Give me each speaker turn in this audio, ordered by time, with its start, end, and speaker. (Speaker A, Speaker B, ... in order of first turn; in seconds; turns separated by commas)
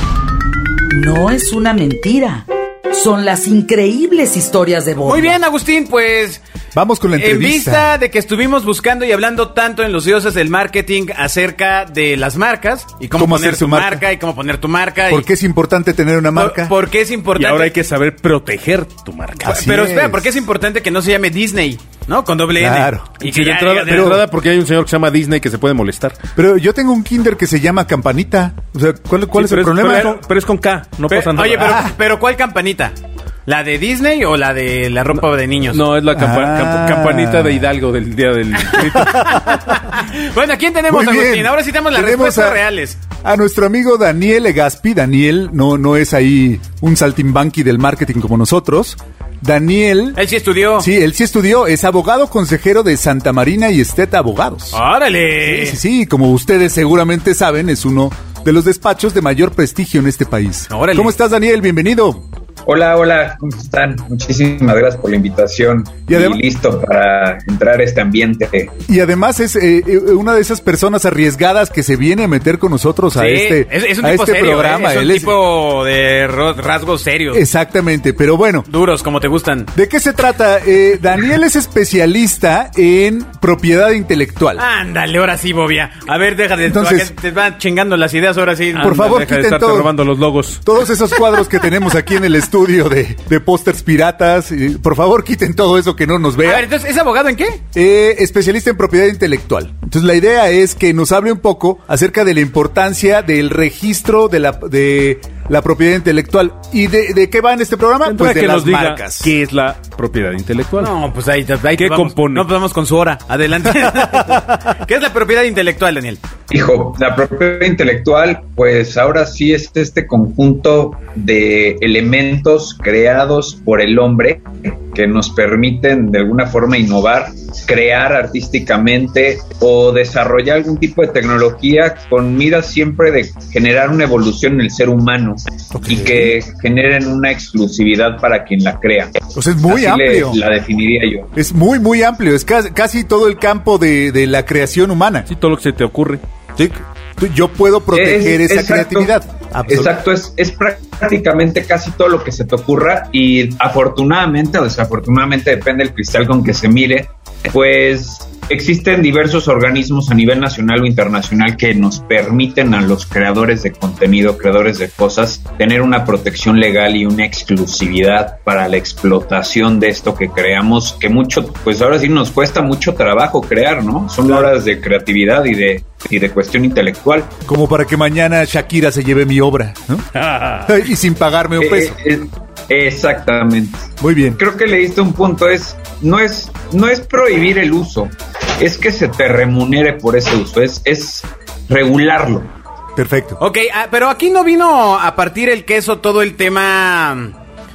Speaker A: 0.9-5.4, Speaker B: 5.0-6.4, Speaker C: 6.7-7.9, Speaker B: 7.2-15.3, Speaker C: 13.1-14.0, Speaker C: 15.1-16.7, Speaker B: 16.3-17.7, Speaker D: 17.3-19.6, Speaker C: 19.4-20.3, Speaker B: 19.5-24.2, Speaker C: 22.5-23.1, Speaker D: 23.2-26.2, Speaker C: 23.9-24.2, Speaker C: 26.4-30.2, Speaker D: 29.3-31.9, Speaker B: 31.1-32.9, Speaker B: 33.5-35.8, Speaker D: 35.1-39.3, Speaker C: 36.1-37.6, Speaker B: 38.6-43.0, Speaker C: 38.9-39.8, Speaker C: 40.9-42.6, Speaker C: 43.2-50.2, Speaker B: 50.1-50.9, Speaker C: 50.8-54.8, Speaker B: 54.7-55.8, Speaker C: 55.4-62.2, Speaker B: 60.7-61.1, Speaker E: 62.6-68.7, Speaker C: 66.1-66.4, Speaker C: 68.9-75.3, Speaker B: 73.2-77.4, Speaker C: 77.3-78.7, Speaker B: 78.7-79.7, Speaker C: 79.7-84.6, Speaker B: 84.5-89.0, Speaker C: 86.6-87.1, Speaker D: 88.7-90.6, Speaker C: 88.8-90.0, Speaker C: 90.6-96.7, Speaker B: 96.4-97.6, Speaker C: 97.7-109.3, Speaker D: 108.0-110.9, Speaker B: 110.8-116.2, Speaker D: 111.8-112.5, Speaker E: 116.5-141.3, Speaker C: 135.7-136.3, Speaker C: 139.3-140.4, Speaker C: 141.3-145.3, Speaker D: 145.3-146.2, Speaker C: 146.6-149.9, Speaker E: 147.9-149.1, Speaker E: 149.7-177.3, Speaker C: 177.5-180.0, Speaker D: 180.2-180.7, Speaker C: 180.6-181.9, Speaker E: 181.6-192.5, Speaker C: 184.0-184.4, Speaker C: 192.9-193.4, Speaker B: 193.4-197.3